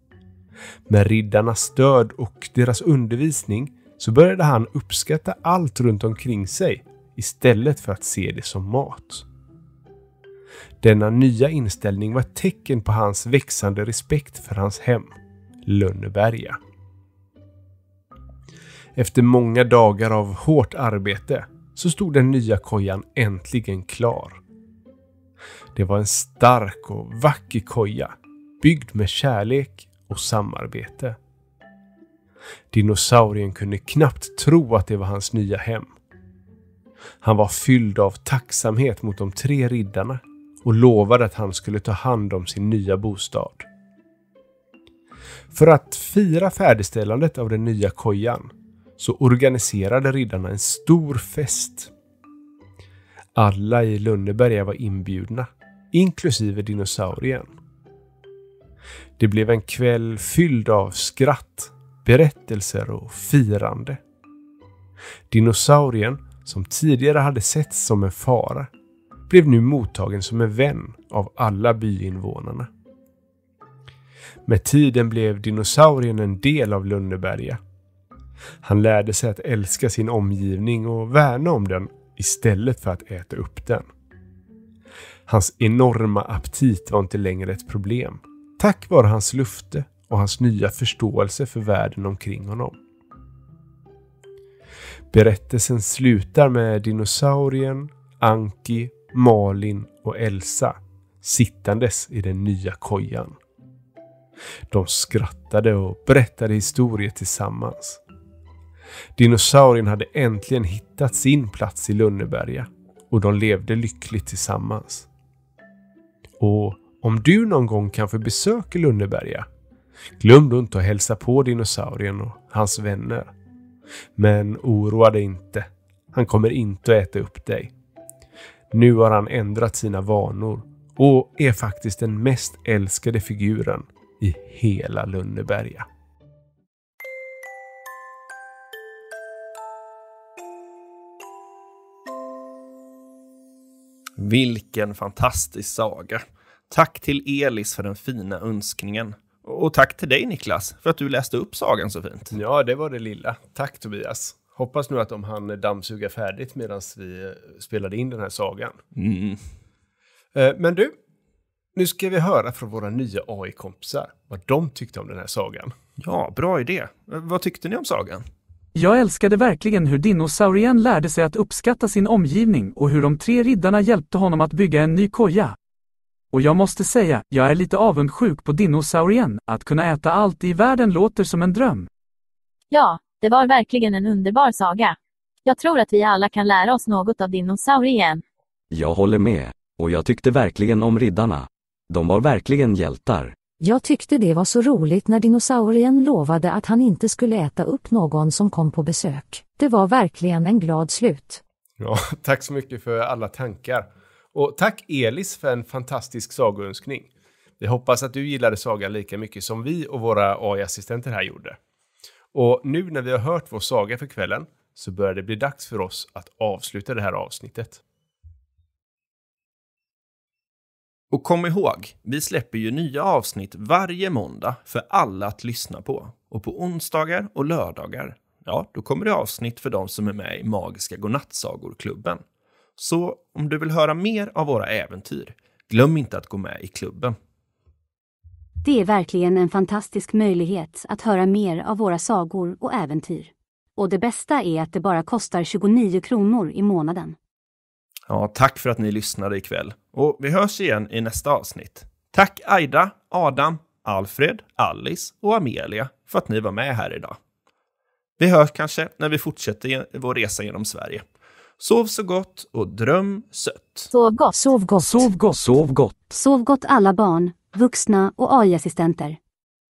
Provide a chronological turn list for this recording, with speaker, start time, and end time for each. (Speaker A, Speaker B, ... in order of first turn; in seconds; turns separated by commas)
Speaker A: 0.9-9.2, Speaker A: 10.8-15.1, Speaker A: 15.6-16.6, Speaker A: 19.0-24.4, Speaker A: 25.7-31.1, Speaker A: 32.7-35.9, Speaker A: 37.2-43.7, Speaker A: 45.5-51.9, Speaker A: 53.4-57.5, Speaker A: 59.2-64.0, Speaker A: 65.3-68.7, Speaker A: 69.3-72.7, Speaker A: 74.5-77.6, Speaker A: 78.6-83.9, Speaker A: 85.3-92.8, Speaker A: 95.1-103.3, Speaker A: 104.7-108.0, Speaker A: 109.2-115.1, Speaker A: 116.4-119.5, Speaker A: 120.2-123.3, Speaker A: 124.2-127.7, Speaker A: 128.7-135.8, Speaker B: 144.2-152.3, Speaker A: 152.3-158.8, Speaker B: 159.0-159.4, Speaker A: 160.3-160.9, Speaker A: 161.8-165.7, Speaker B: 166.0-168.2, Speaker C: 168.7-175.6, Speaker C: 176.3-181.9, Speaker D: 182.7-188.2, Speaker E: 188.7-193.3, Speaker F: 193.6-201.4, Speaker A: 201.8-211.6, Speaker A: 212.3-217.8, Speaker B: 221.1-232.2, Speaker B: 232.8-237.1, Speaker G: 238.6-247.2, Speaker B: 248.1-257.1, Speaker B: 258.2-261.0, Speaker B: 261.6-263.9, Speaker D: 263.9-264.5, Speaker F: 264.3-265.1, Speaker C: 264.8-265.4, Speaker E: 265.3-266.0, Speaker G: 266.1-269.2